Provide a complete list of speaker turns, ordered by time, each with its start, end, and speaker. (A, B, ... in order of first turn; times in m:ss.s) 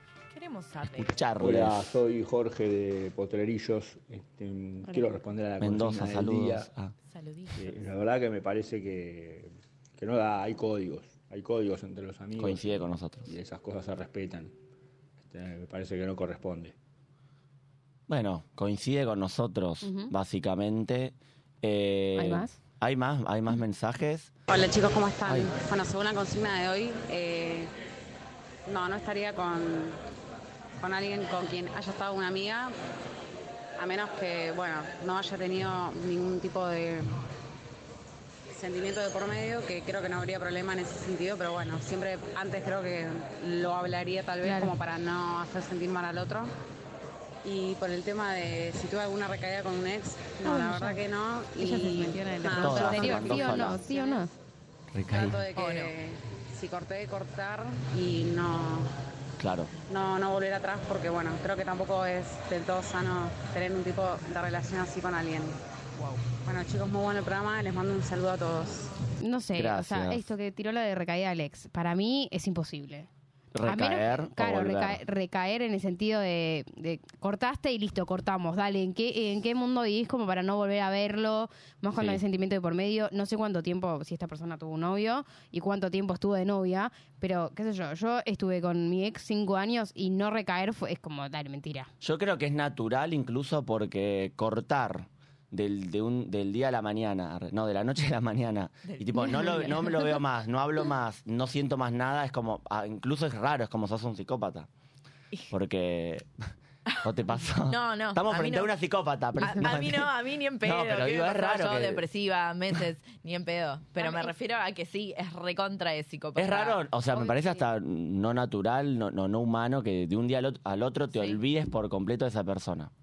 0:00.3-0:01.2 A
0:00.9-0:01.9 B
0:01.4-0:06.7 C
0:05.6-0:06.9 B
0:07.1-0:07.7 A
0:07.5-0:14.5 C
0:12.4-0:13.3 B
0:15.2-0:16.8 C
0:18.1-0:24.3 B
0:19.8-0:20.1 D
0:22.2-0:22.6 D
0:24.5-0:27.7 E
0:25.3-0:25.5 B
0:28.7-0:30.0 E
0:30.8-0:32.7 E
0:33.8-0:37.1 E
0:38.5-0:46.5 E
0:44.4-0:44.8 D
0:47.4-0:54.3 E
0:50.4-0:51.0 D
0:51.6-0:54.3 D
0:52.5-0:53.8 B
0:54.9-0:55.4 B
0:55.1-0:58.9 E
0:55.6-0:55.9 A
0:59.4-0:59.7 B
0:59.9-1:05.6 E
1:06.4-1:08.9 E
1:09.2-1:13.1 D
1:09.6-1:10.3 B
1:13.5-1:15.0 B
1:13.7-1:31.9 D
1:22.0-1:22.2 B
1:32.0-1:44.7 B
1:38.9-1:40.2 A
1:39.2-1:39.6 D
1:45.5-1:46.3 B
1:47.0-1:52.0 B
1:47.6-1:48.7 A
1:49.4-1:57.3 A
1:54.0-1:54.3 D
1:56.4-2:02.9 B
2:01.1-2:01.4 A